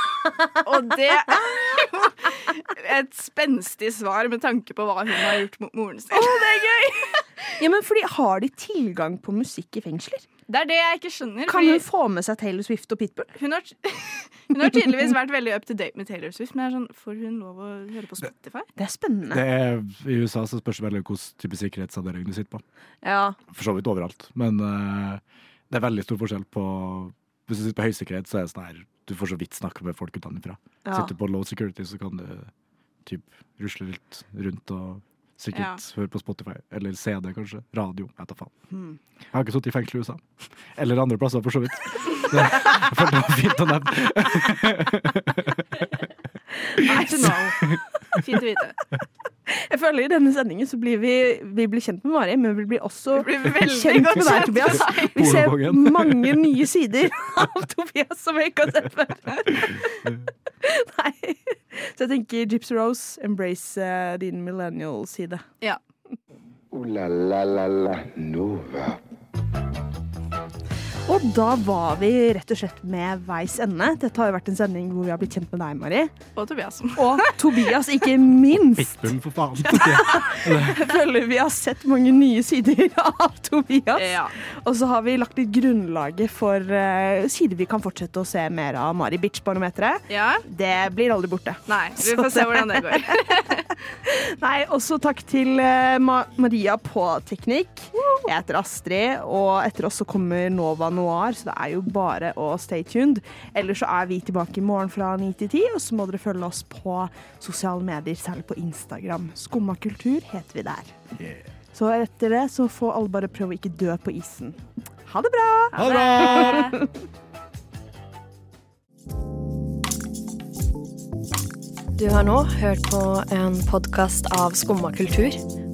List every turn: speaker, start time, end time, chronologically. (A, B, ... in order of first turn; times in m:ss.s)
0:00.6-0:07.3 A
0:06.1-0:10.3 B
0:10.5-0:11.8 A
0:11.5-0:13.3 B
0:13.4-0:18.7 A
0:18.8-0:19.4 B
0:19.3-0:22.6 C
0:23.0-0:23.4 B
0:23.5-0:32.5 C
0:30.8-0:31.1 B
0:33.1-0:38.5 C
0:35.5-0:35.8 A
0:39.3-0:45.6 C
0:46.7-0:47.5 B
0:46.8-0:47.6 A
0:47.6-0:48.2 C
0:48.1-0:48.8 A
0:49.5-1:00.0 B
0:53.1-0:55.4 A
0:54.2-0:56.4 C
1:00.6-1:05.4 B
1:06.7-1:09.0 D
1:11.1-1:16.1 B
1:16.4-1:17.6 A
1:17.0-1:33.4 B
1:18.8-1:20.8 C
1:24.0-1:24.4 A
1:30.1-1:30.4 A
1:31.7-1:33.8 A
1:34.1-1:50.9 B
1:51.7-1:56.7 B
1:55.8-1:56.8 C
1:55.8-1:56.8 A
2:02.0-2:05.4 E